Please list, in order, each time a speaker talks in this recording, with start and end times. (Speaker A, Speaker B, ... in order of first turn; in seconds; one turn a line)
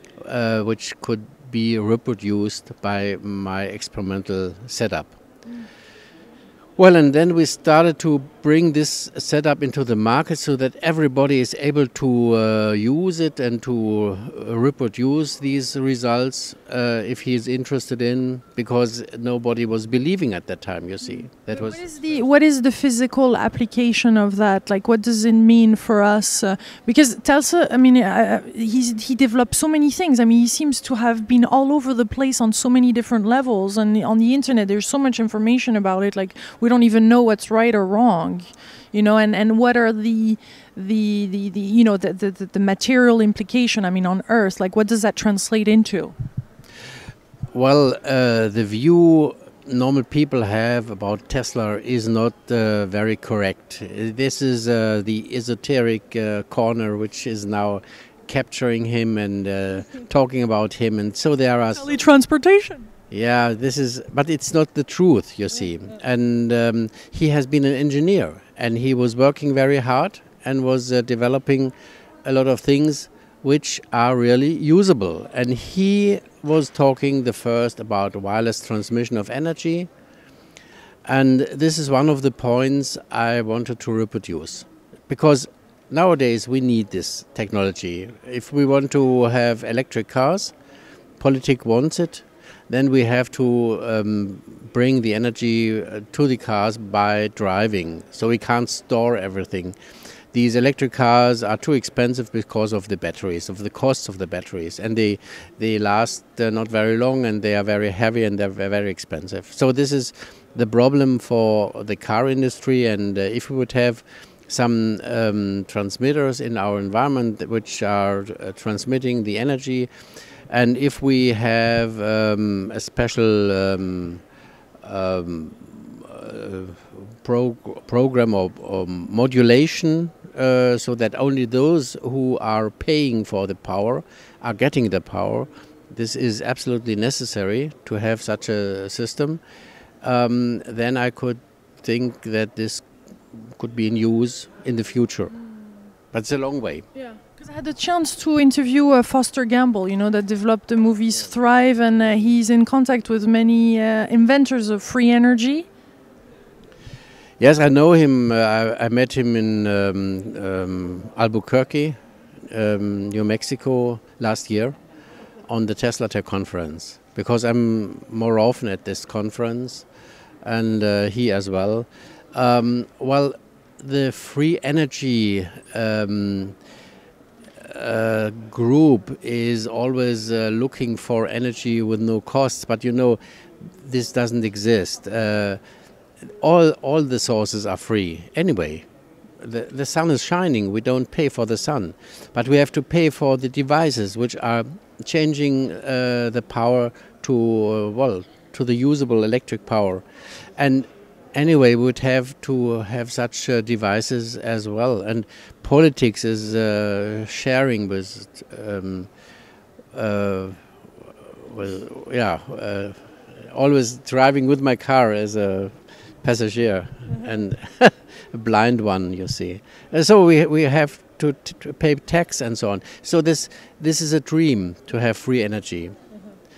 Speaker A: 0.2-5.2
Speaker A: 6.8-21.8
Speaker B: 21.0-46.1
Speaker A: 47.5-61.9
Speaker B: 61.7-62.9
Speaker A: 63.1-71.7
Speaker A: 72.2-79.9
Speaker A: 81.0-90.5
Speaker A: 91.2-99.8
Speaker A: 100.3-119.9
Speaker A: 120.5-124.2
Speaker A: 124.8-139.4
Speaker A: 140.0-145.3
Speaker B: 145.4-145.8
Speaker A: 146.1-146.8
Speaker B: 146.9-155.7
Speaker A: 157.4-162.0
Speaker A: 162.5-164.8
Speaker A: 165.5-169.8
Speaker A: 170.4-176.6
Speaker A: 177.6-183.2
Speaker A: 183.8-185.6
Speaker A: 186.4-188.8
Speaker A: 189.4-200.0
Speaker A: 200.6-209.1
Speaker A: 209.9-210.6
Speaker A: 211.2-225.9